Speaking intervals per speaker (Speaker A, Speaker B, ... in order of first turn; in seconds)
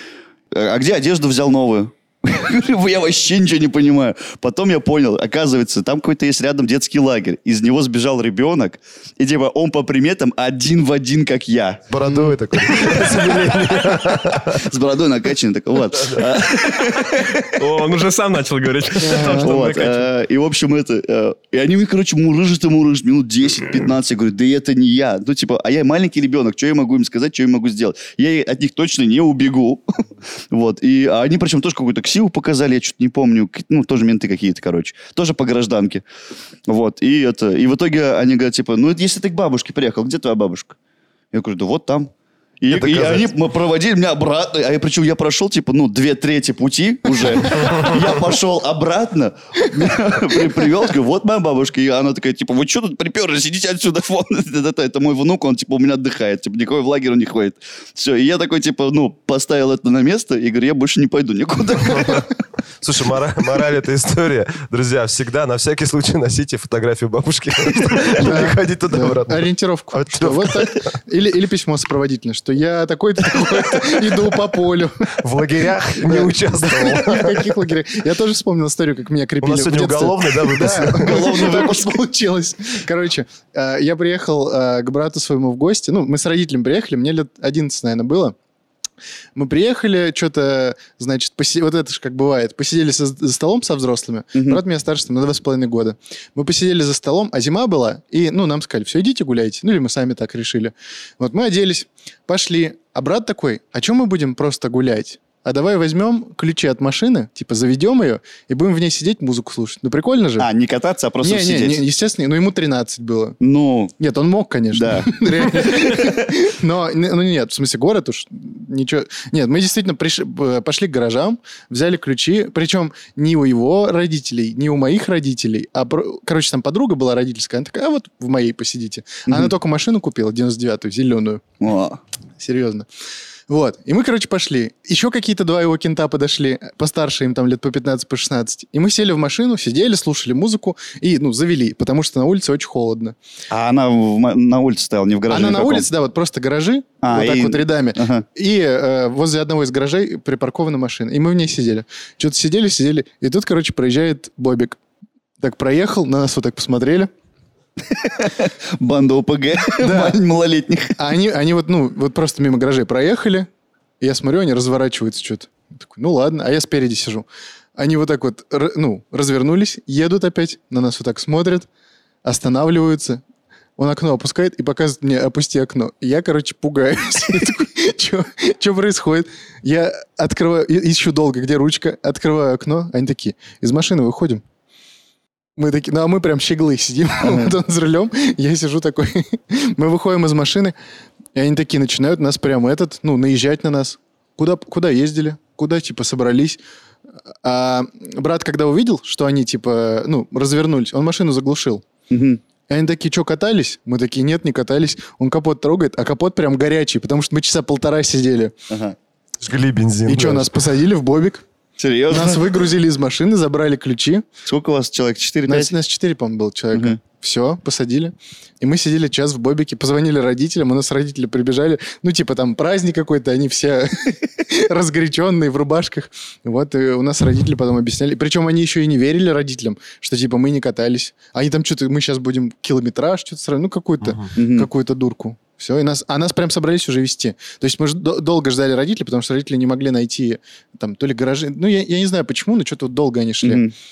Speaker A: 0.5-11.8, 12.7-17.8, 19.1-36.0, 36.7-40.8, 41.3-42.1, 42.6-62.3, 80.9-82.0, 94.3-94.6, 110.4-111.8, 113.4-113.9, 114.7-116.3, 131.6-132.0, 143.5-145.9, 147.0-148.2, 157.8-161.0, 187.2-187.5, 202.1-202.4, 208.7-208.9, 211.8-212.5, 214.4-215.7, 234.4-234.7, 243.4-243.7
Speaker B: 11.9-14.7, 15.9-16.3, 42.7-43.3, 47.6-48.0, 61.9-62.3, 62.8-70.8, 75.2-77.7, 79.4-81.4, 209.4-210.6
Speaker C: 12.0-12.4, 19.0-19.5, 68.2-75.2, 76.0-88.3, 89.3-110.5, 111.2-113.4, 114.0-131.4, 132.4-132.9, 133.5-143.2, 145.3-154.8, 155.4-157.1, 159.8-160.2, 161.0-163.5, 164.0-171.7, 172.2-173.2, 173.8-184.4, 185.6-190.7, 191.3-196.6, 197.4-201.8, 202.7-208.5, 210.1-211.4, 212.1-214.2, 215.5-243.6
Speaker D: 16.6-20.1